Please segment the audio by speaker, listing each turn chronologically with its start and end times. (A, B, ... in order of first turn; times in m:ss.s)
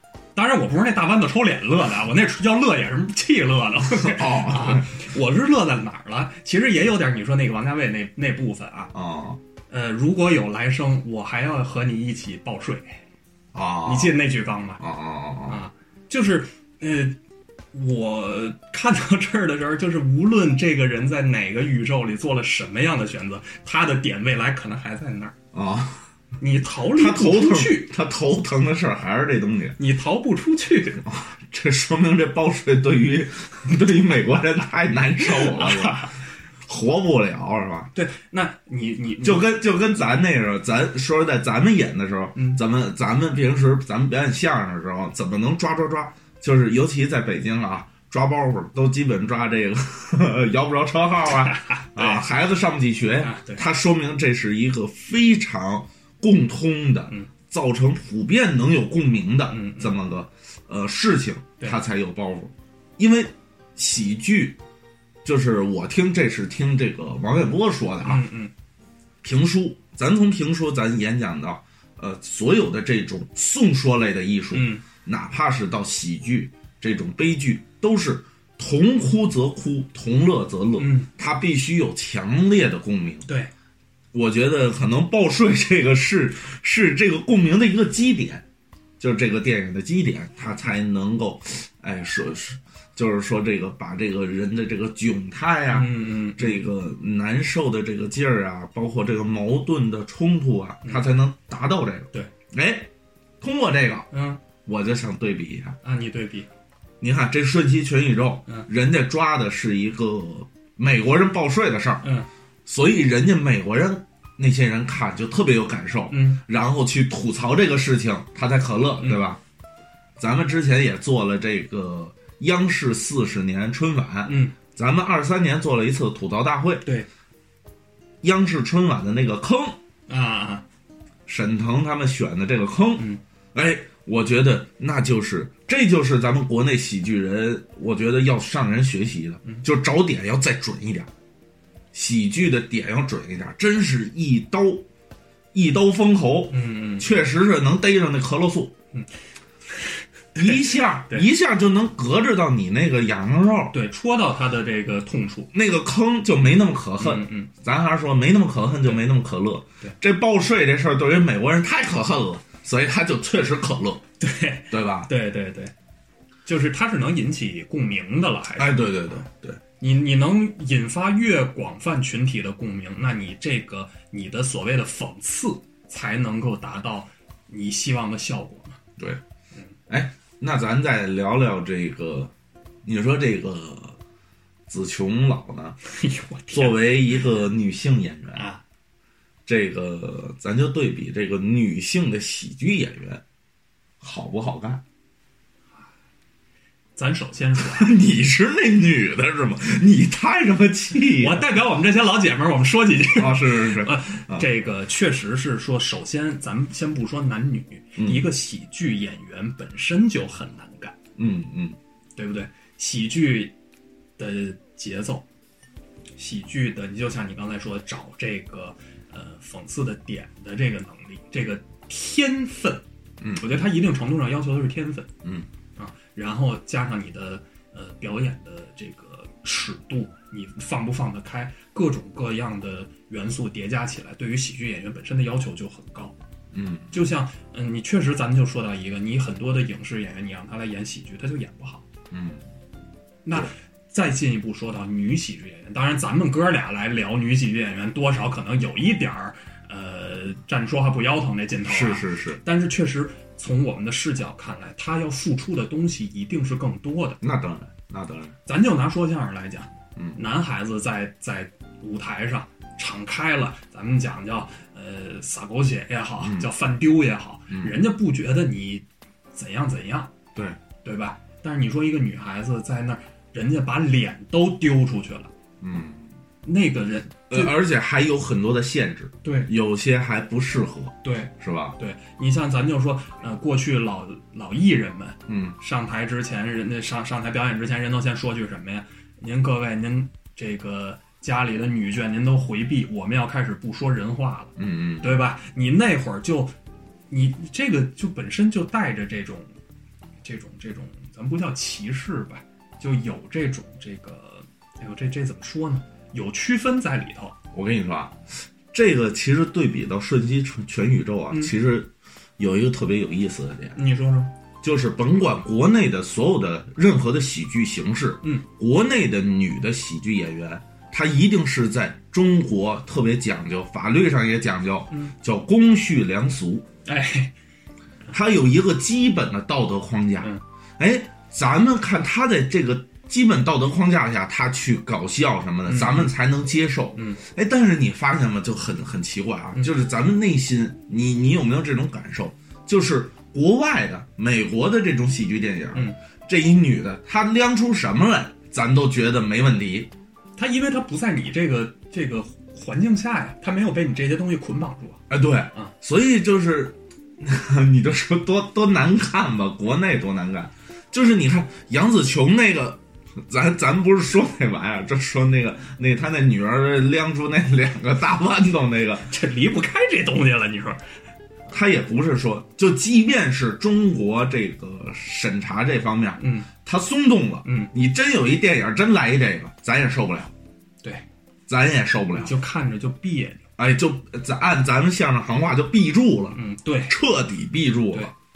0:00.3-0:08.9 A
0:03.9-0:05.0 B
0:08.9-0:09.4 B
0:09.7-0:13.0 A
0:13.5-0:14.2 B
0:13.8-0:14.8 A
0:14.8-0:15.6 B
0:15.5-0:17.2 A
0:17.7-0:25.3 A
0:25.5-0:26.0 B
0:26.4-0:27.9 A
0:26.9-0:29.8 B
0:29.8-0:31.0 A
0:31.0-0:37.9 B
0:35.2-0:36.2 A
0:37.9-0:39.5 A
0:39.2-1:04.6 B
0:42.3-0:42.6 A
0:51.3-0:52.2 A
0:53.2-0:53.6 A
0:59.5-1:00.0 A
1:05.2-1:08.2 B
1:08.0-1:08.5 A
1:09.2-1:23.3 B
1:14.5-1:14.8 A
1:20.8-1:21.1 A
1:23.2-1:23.5 A
1:24.1-1:28.4 B
1:29.0-1:44.1 B
1:35.7-1:36.6 A
1:44.1-1:44.4 A
1:44.6-1:45.8 B
1:45.8-1:46.5 A
1:47.0-1:52.0 B
1:52.0-1:52.3 A
1:52.6-1:59.4 B
1:56.1-1:56.4 A
2:00.2-2:06.8 B
2:04.2-2:04.5 A
2:08.2-2:09.8 B
2:10.1-2:10.6 A
2:11.3-2:21.1 B
2:21.9-2:24.9 B
2:25.5-2:28.7 B
2:26.5-2:27.1 A
2:29.7-2:31.3 A
2:30.3-2:33.7 B
2:33.7-2:35.5 A
2:35.5-2:44.0 B
2:37.0-2:37.5 A
2:44.2-2:45.7 A
2:44.7-2:45.1 B
2:46.4-2:49.2 A
2:48.6-2:49.6 B
2:49.8-2:58.8 A
2:59.9-3:02.3 B
3:02.8-3:04.0 B
3:04.7-3:05.8 B
3:05.8-3:06.9 A
3:06.5-3:08.4 B
3:08.3-3:08.6 A
3:09.4-3:13.2 B
3:14.0-3:14.8 B
3:17.0-3:17.9 A
3:17.6-3:21.5 B
3:21.1-3:31.0 A
3:23.1-3:24.5 B
3:28.0-3:28.3 B
3:31.2-3:31.8 B
3:32.2-3:33.5 A
3:34.2-3:35.2 A
3:36.2-3:42.8 A
3:43.2-3:43.6 B
3:43.4-3:45.1 A
3:45.8-3:56.2 A
3:56.5-3:57.0 B
3:56.9-4:01.9 A
4:02.1-4:02.4 B
4:03.2-4:17.2 A
4:11.6-4:12.4 B
4:17.2-4:18.3 B
4:18.4-4:30.1 A
4:26.2-4:26.5 B
4:27.5-4:27.8 B
4:30.8-4:35.3 A
4:35.6-4:36.1 B
4:36.4-4:37.5 A
4:37.3-4:41.8 B
4:39.2-4:39.5 A
4:41.0-4:56.5 A
4:45.3-4:45.6 B
4:54.6-4:55.2 B
4:57.1-4:59.5 A
5:00.2-5:07.4 A
5:07.5-5:13.8 B
5:13.7-5:14.3 A
5:14.6-5:26.7 B
5:26.8-5:27.3 A
5:28.1-5:49.9 B
5:35.7-5:36.1 A
5:36.9-5:37.2 A
5:50.4-5:55.7 A
5:55.1-6:09.1 B
6:09.1-6:10.8 A
6:11.5-6:20.3 B
6:16.2-6:16.5 A
6:17.4-6:17.7 A
6:21.5-6:22.4 B
6:22.1-6:23.4 A
6:23.6-6:28.1 B
6:26.3-6:27.0 A